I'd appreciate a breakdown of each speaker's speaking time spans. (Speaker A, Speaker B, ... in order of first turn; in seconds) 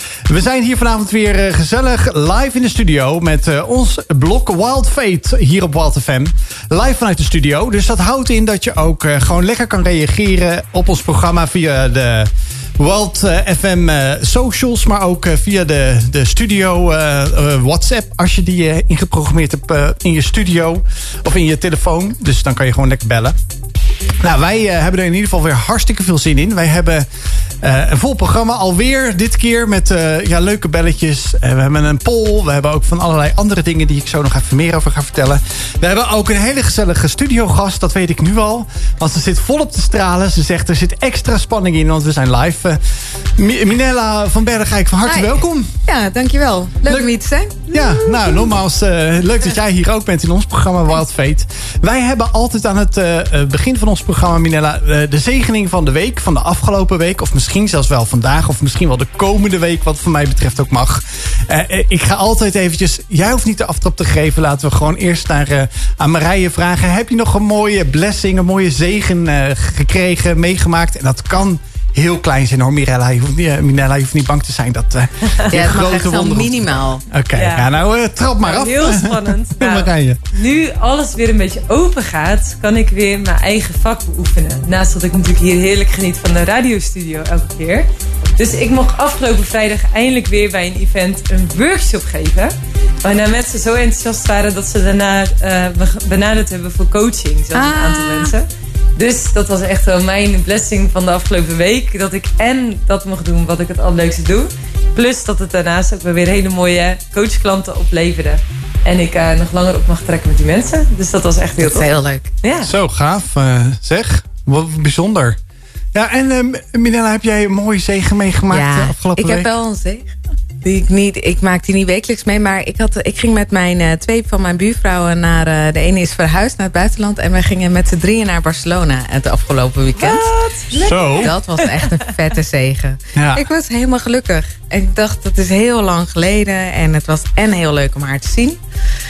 Speaker A: 0.3-23.4, 24.2-27.1, 27.6-42.8, 43.4-45.7, 46.9-47.1, 47.7-80.2, 112.6-115.4, 115.9-119.5, 130.7-131.3, 133.2-133.4
Speaker B: 45.0-48.4, 75.5-77.0, 97.5-98.3, 111.6-112.3, 118.5-120.1, 120.6-130.3, 131.2-138.6
Speaker C: 77.3-77.8, 78.4-87.9, 88.4-111.9, 112.4-112.7, 130.0-131.8